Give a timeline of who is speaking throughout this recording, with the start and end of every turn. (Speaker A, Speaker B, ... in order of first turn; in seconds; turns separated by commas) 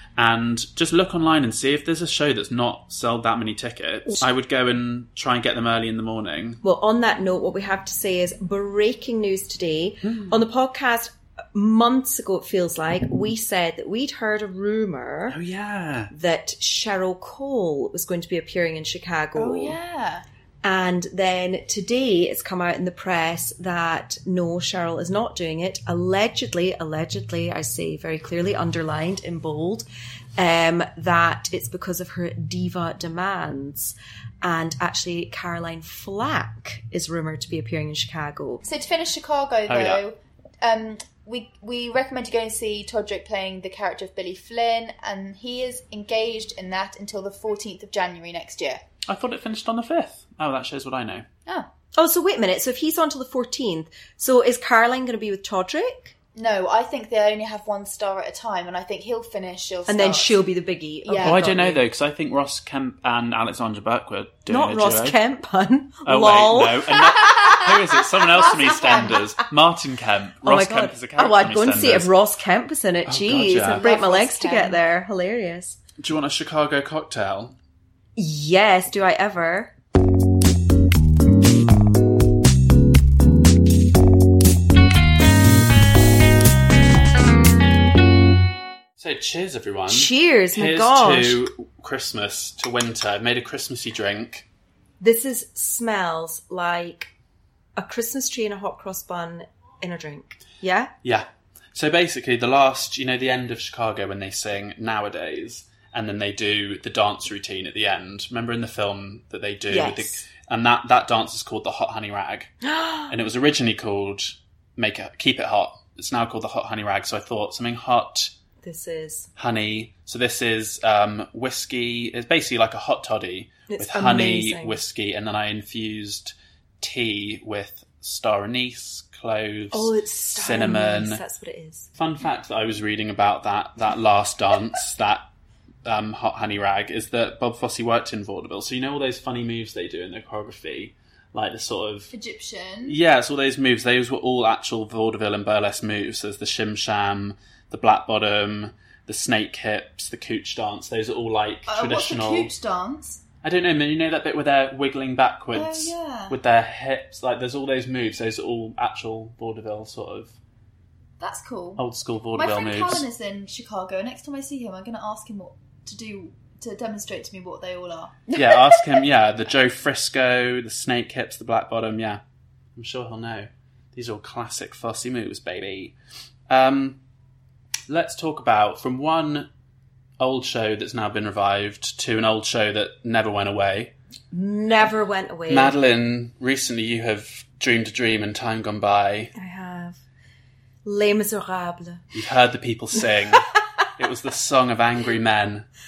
Speaker A: 0.2-6.6, Speaker B: 6.6-15.4, Speaker A: 10.0-10.4, Speaker A: 15.3-16.1, Speaker B: 16.1-19.8, Speaker C: 19.4-20.2, Speaker B: 20.6-29.9, Speaker B: 30.4-38.6, Speaker C: 38.6-48.8, Speaker A: 39.7-40.0, Speaker A: 49.1-51.2, Speaker B: 52.0-56.1, Speaker C: 56.4-60.4, Speaker B: 59.9-61.8, Speaker C: 61.0-61.5, Speaker A: 61.2-65.2, Speaker B: 64.5-67.7, Speaker A: 66.1-72.1, Speaker C: 67.3-67.7, Speaker C: 68.4-69.2, Speaker B: 68.5-69.2, Speaker B: 70.4-75.8, Speaker A: 73.1-73.9, Speaker C: 73.6-74.8, Speaker A: 76.0-77.5, Speaker B: 78.2-79.7, Speaker A: 89.0-94.5, Speaker B: 89.9-91.4, Speaker B: 95.0-97.1, Speaker B: 97.8-100.9, Speaker A: 101.0-112.5, Speaker B: 109.7-110.2, Speaker B: 112.6-113.1, Speaker A: 113.1-118.3, Speaker B: 118.6-119.3, Speaker A: 119.4-131.2, Speaker B: 123.7-124.8, Speaker B: 129.7-131.9, Speaker A: 132.0-135.2, Speaker A: 135.8-142.1, Speaker C: 142.1-143.0, Speaker A: 142.9-152.5, Speaker C: 151.7-153.2, Speaker A: 153.4-160.4, Speaker C: 155.5-156.4, Speaker C: 161.2-161.8, Speaker A: 161.8-163.1, Speaker C: 162.3-168.3, Speaker A: 168.3-172.2, Speaker A: 172.8-175.9, Speaker A: 176.5-177.0, Speaker A: 177.9-179.5, Speaker A: 180.2-183.9, Speaker B: 184.3-185.8, Speaker A: 185.5-189.3, Speaker B: 189.3-190.0, Speaker B: 190.8-192.1, Speaker A: 192.1-195.7